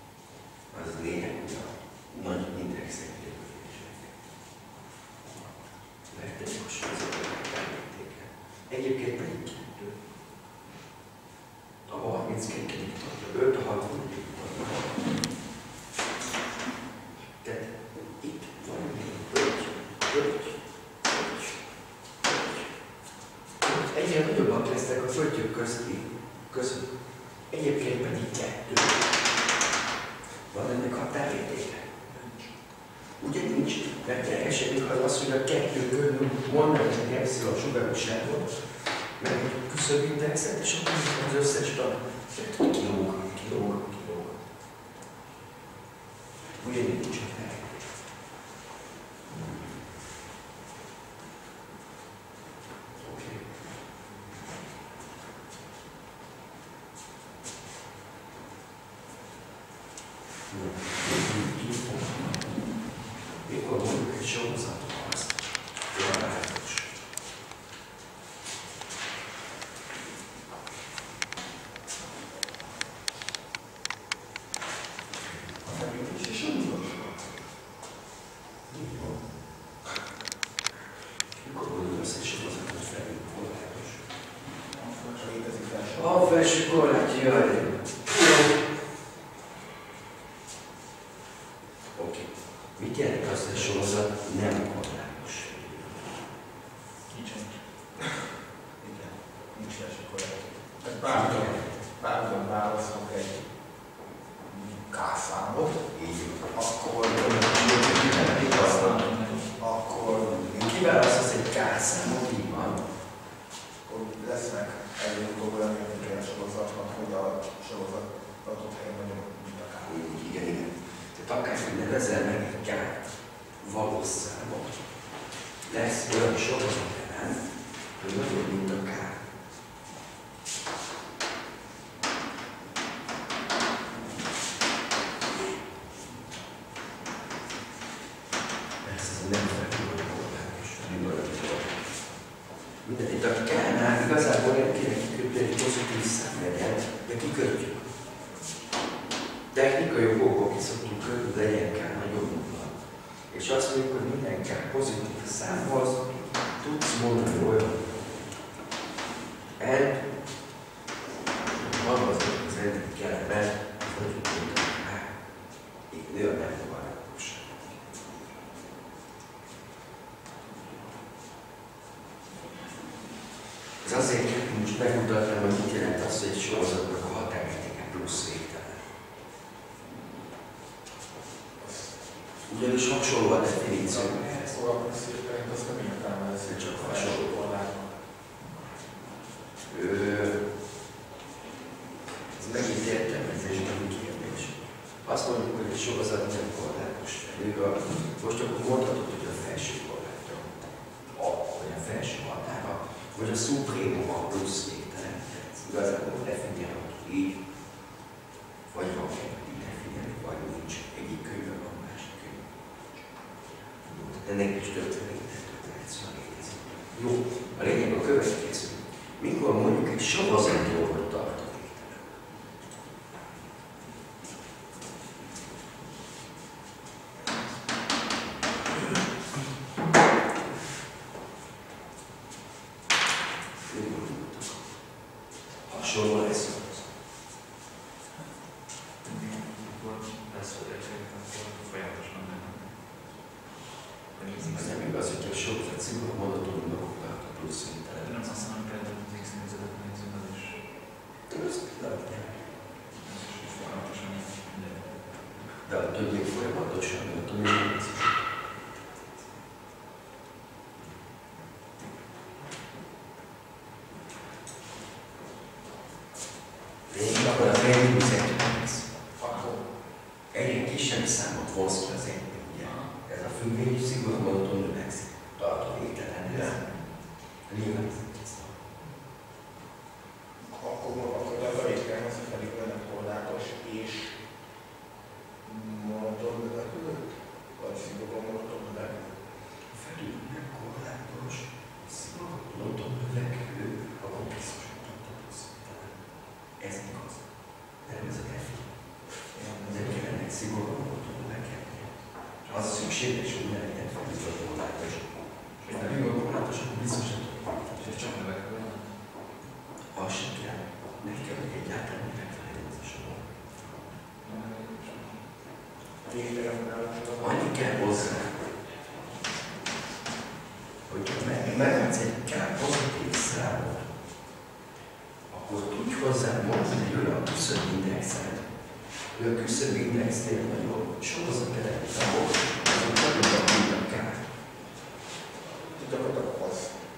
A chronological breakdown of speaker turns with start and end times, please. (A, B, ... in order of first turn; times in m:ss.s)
0:00.7-0:04.1 A
0:06.1-0:09.9 A
0:11.8-0:15.2 A
0:17.3-0:21.6 A
0:22.2-0:22.6 A
0:23.6-0:29.0 A
0:30.3-0:31.9 A
0:33.0-0:44.4 A
0:46.4-0:47.9 A
0:49.3-0:49.8 A
0:53.0-0:53.5 A
1:00.5-1:02.5 A
1:03.3-1:06.9 A
1:15.6-1:17.3 B
1:18.7-1:19.2 A
1:21.2-1:24.1 A
1:24.6-1:25.3 C
1:25.1-1:26.4 B
1:25.9-1:28.6 A
1:31.9-1:35.9 A
1:37.1-1:37.6 C
1:38.8-1:43.5 B
1:41.0-1:41.8 A
1:44.4-1:45.8 B
1:45.9-1:46.5 A
1:46.5-1:48.9 B
1:47.0-1:49.0 A
1:47.5-1:49.5 C
1:49.6-1:50.4 B
1:50.2-1:52.8 A
1:53.8-1:59.9 B
1:59.8-2:04.9 A
2:05.5-2:09.2 A
2:18.8-2:22.0 A
2:22.7-2:27.9 A
2:29.5-2:37.9 A
2:39.6-2:40.1 A
2:41.4-2:45.1 A
2:45.8-2:47.6 A
2:53.8-2:58.8 A
3:01.6-3:01.9 B
3:02.4-3:04.6 A
3:03.8-3:07.9 B
3:06.4-3:07.4 A
3:09.6-3:10.4 A
3:12.3-3:27.4 A
3:28.7-3:32.5 A
3:33.9-3:42.2 A
3:53.6-3:54.8 A
3:55.5-3:56.9 A
3:59.0-4:02.7 C
4:04.1-4:04.8 C
4:04.4-4:08.2 A
4:08.0-4:10.6 C
4:11.3-4:12.4 A
4:12.9-4:15.2 C
4:15.5-4:18.6 A
4:26.9-4:28.9 A
4:27.2-4:27.7 B
4:29.2-4:29.6 B
4:30.3-4:36.6 A
4:32.6-4:32.9 C
4:36.3-4:36.6 B
4:37.4-4:38.6 A
4:40.4-4:44.2 B
4:45.4-4:49.2 B
4:49.6-4:55.9 A
4:56.6-4:58.7 A
4:59.5-5:08.2 A
5:05.6-5:06.2 C
5:07.8-5:09.0 C
5:09.9-5:13.3 A
5:14.2-5:15.2 C
5:16.0-5:18.1 B
5:17.2-5:18.5 A
5:20.9-5:23.9 A
5:25.3-5:34.2 A
5:35.7-5:36.8 B